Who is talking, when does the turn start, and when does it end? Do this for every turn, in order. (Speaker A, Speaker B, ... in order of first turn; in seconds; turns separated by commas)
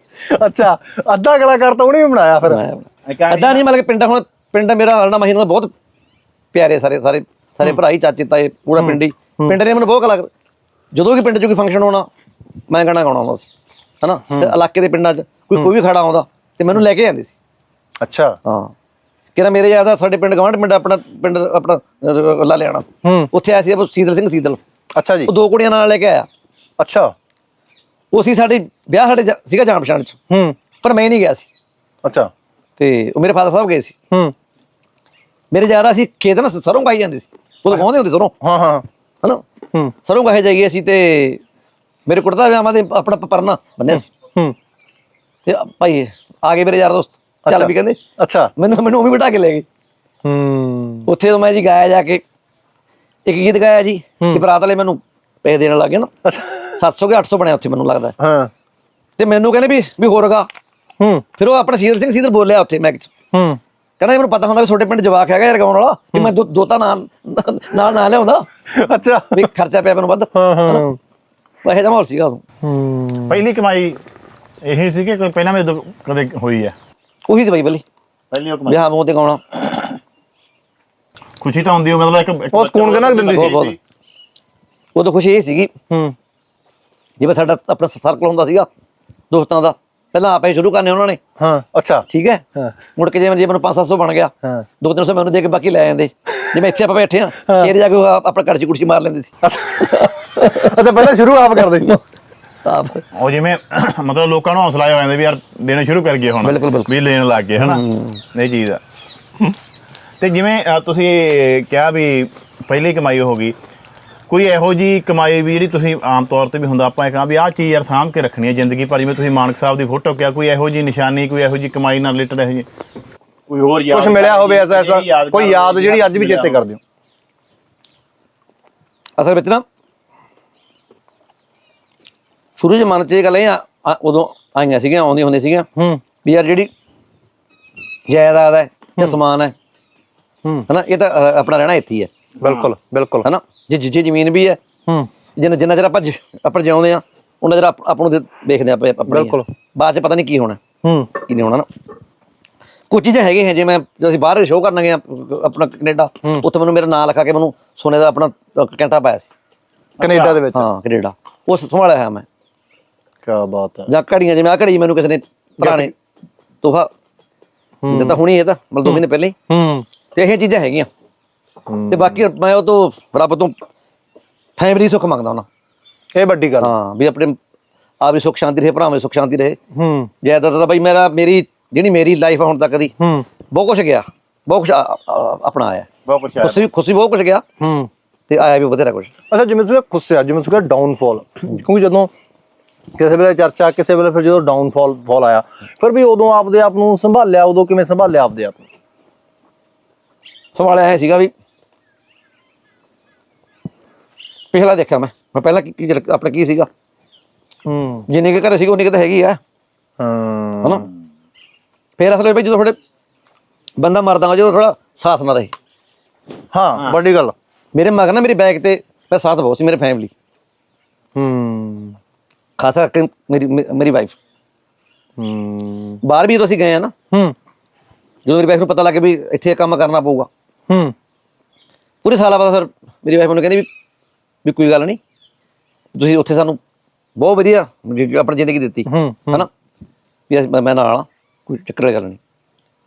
Speaker A: 0.2-2.6, Speaker B: 2.5-5.7, Speaker C: 3.1-3.6, Speaker B: 6.5-10.3, Speaker A: 8.8-9.6, Speaker B: 10.9-12.1, Speaker B: 12.7-13.5, Speaker B: 14.0-17.4, Speaker A: 14.3-14.5, Speaker A: 18.0-18.4, Speaker B: 18.4-18.7, Speaker B: 19.4-24.6, Speaker A: 23.0-23.3, Speaker A: 24.9-25.3, Speaker B: 25.2-26.3, Speaker A: 26.8-27.1, Speaker B: 28.1-30.2, Speaker A: 30.3-30.6, Speaker B: 30.8-31.5, Speaker A: 32.0-32.3, Speaker B: 32.8-33.9, Speaker B: 35.5-38.3, Speaker A: 38.4-38.9, Speaker B: 40.0-41.4, Speaker B: 42.1-44.1, Speaker A: 43.9-44.5, Speaker B: 45.5-48.0, Speaker A: 47.5-48.5, Speaker B: 48.5-49.6, Speaker A: 50.2-51.1, Speaker B: 51.0-52.2, Speaker B: 53.3-56.1, Speaker A: 56.2-56.8, Speaker B: 56.7-58.1, Speaker A: 58.2-58.5, Speaker B: 59.2-60.5, Speaker A: 61.0-61.2, Speaker B: 61.4-63.1, Speaker A: 63.3-63.6, Speaker B: 64.0-68.5, Speaker A: 68.7-69.5, Speaker B: 69.3-70.8, Speaker A: 70.3-71.0, Speaker B: 71.6-72.4, Speaker A: 72.6-73.4, Speaker C: 73.3-74.0, Speaker C: 74.6-76.7, Speaker B: 77.3-77.8, Speaker C: 78.3-78.8, Speaker B: 78.7-79.6, Speaker C: 81.4-83.8, Speaker A: 82.5-83.7, Speaker B: 83.3-83.7, Speaker B: 85.0-85.7, Speaker B: 87.2-88.7, Speaker B: 89.3-91.2, Speaker A: 91.4-92.0, Speaker B: 92.1-92.4, Speaker B: 93.0-100.7, Speaker A: 97.5-97.7, Speaker A: 99.4-102.0, Speaker B: 101.6-102.0, Speaker B: 102.6-103.0, Speaker C: 103.1-108.8, Speaker B: 106.4-106.9, Speaker B: 107.6-108.2, Speaker C: 110.2-113.5, Speaker C: 114.3-122.7, Speaker C: 123.5-126.7, Speaker A: 123.9-126.8, Speaker B: 129.2-129.6, Speaker B: 132.6-135.7, Speaker A: 135.8-136.0, Speaker B: 136.2-136.7, Speaker B: 138.1-139.5, Speaker B: 140.7-142.1, Speaker C: 142.4-142.7, Speaker A: 142.4-143.3, Speaker B: 143.2-144.6, Speaker B: 145.4-150.6, Speaker A: 149.1-149.5, Speaker A: 150.8-151.1, Speaker B: 151.2-151.7, Speaker B: 152.9-159.3, Speaker C: 160.0-160.4, Speaker A: 160.0-160.7, Speaker B: 160.5-162.2, Speaker A: 163.2-163.9, Speaker B: 163.9-165.9, Speaker A: 165.6-165.9, Speaker B: 166.6-166.9, Speaker A: 167.8-168.2, Speaker B: 167.9-169.3, Speaker A: 168.8-169.8, Speaker B: 170.1-170.9, Speaker A: 171.7-172.2, Speaker B: 171.9-173.6, Speaker B: 174.6-175.4, Speaker A: 176.1-176.7, Speaker B: 176.6-177.3, Speaker B: 178.0-179.6, Speaker A: 179.7-180.1, Speaker B: 180.2-182.9, Speaker A: 183.0-183.2, Speaker B: 183.5-185.9, Speaker C: 186.1-186.6, Speaker B: 186.4-187.4, Speaker A: 187.6-187.9, Speaker B: 188.3-189.1, Speaker A: 189.3-192.1, Speaker A: 192.9-198.6, Speaker B: 200.6-201.3, Speaker B: 204.5-206.7, Speaker A: 207.7-208.0, Speaker B: 208.1-209.4, Speaker A: 210.0-210.8, Speaker B: 212.0-212.8, Speaker B: 213.8-215.5, Speaker A: 216.5-217.3, Speaker B: 217.7-220.1, Speaker A: 221.2-222.0, Speaker B: 222.6-224.2, Speaker A: 225.2-226.0, Speaker B: 226.0-226.9, Speaker B: 228.2-230.3, Speaker A: 230.7-230.9, Speaker B: 232.0-233.7, Speaker B: 234.4-235.0, Speaker B: 235.9-236.6, Speaker B: 237.2-239.5, Speaker A: 238.9-239.4, Speaker B: 240.3-242.2